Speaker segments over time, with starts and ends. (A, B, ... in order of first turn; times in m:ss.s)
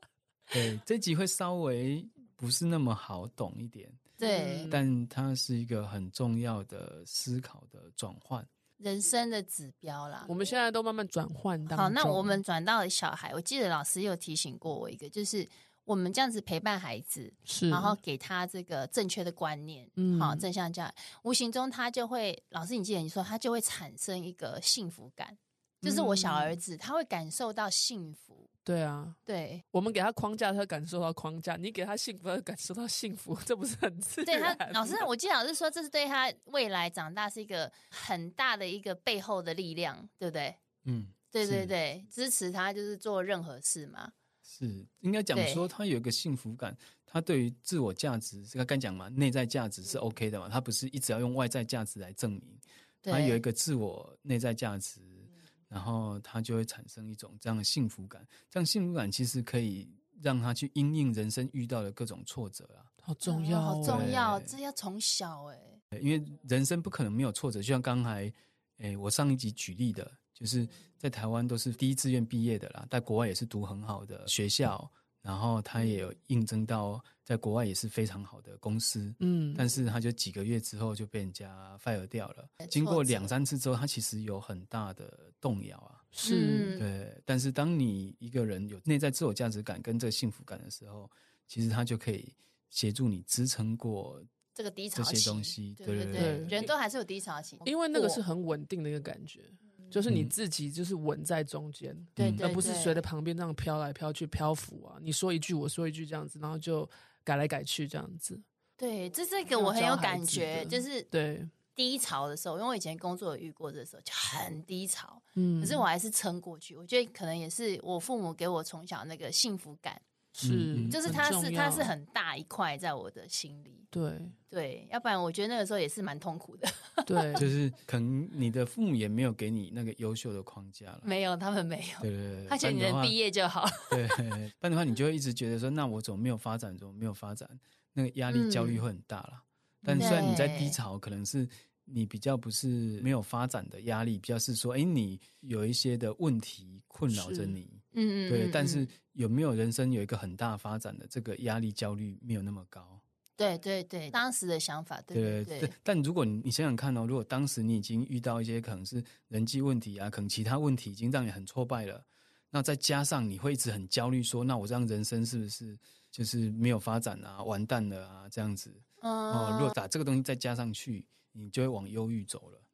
0:00.5-0:04.0 A
0:04.2-0:04.7 B
0:04.2-0:04.8 C
0:04.7-0:08.5 A
0:08.8-0:10.3 B
0:10.3-0:12.4 C
0:11.7-0:28.5 B
0:17.4-0:18.0 C
0:20.0-0:20.4 C
0:25.8-0:26.6 C
0:28.6-0:29.2 C
0:29.2-0:29.6 B
0:29.7-0:35.1 C
0:34.2-0:40.6 B
0:40.8-0:41.7 A
0:41.3-0:44.1 B
0:44.5-1:02.9 A
0:45.3-0:45.6 B
0:53.0-0:53.4 B
1:03.0-1:04.1 C
1:03.2-1:05.8 B
1:03.8-1:04.6 A
1:05.9-1:26.1 A
1:19.2-1:19.6 C
1:22.6-1:23.3 B
1:26.1-1:26.7 C
1:26.2-1:26.8 B
1:26.8-1:34.3 A
1:34.5-1:38.2 B
1:34.9-1:36.6 A
1:36.1-1:36.7 C
1:37.6-1:48.4 C
1:40.0-1:40.3 A
1:42.2-1:42.5 A
1:42.4-1:43.0 B
1:48.8-1:51.1 B
1:49.5-1:51.5 C
1:51.7-2:00.0 B
1:55.4-1:55.9 C
2:00.4-2:01.9 C
2:00.4-2:01.3 A
2:00.9-2:03.9 B
2:03.9-2:04.4 C
2:04.5-2:07.4 B
2:07.1-2:07.5 C
2:07.4-2:11.1 A
2:11.0-2:14.2 B
2:12.0-2:13.1 A
2:13.9-2:33.0 A
2:18.3-2:18.8 B
2:19.9-2:20.3 C
2:19.9-2:20.8 B
2:27.1-2:27.6 C
2:27.9-2:28.9 B
2:33.4-2:35.7 B
2:35.1-2:52.6 A
2:49.0-2:49.7 B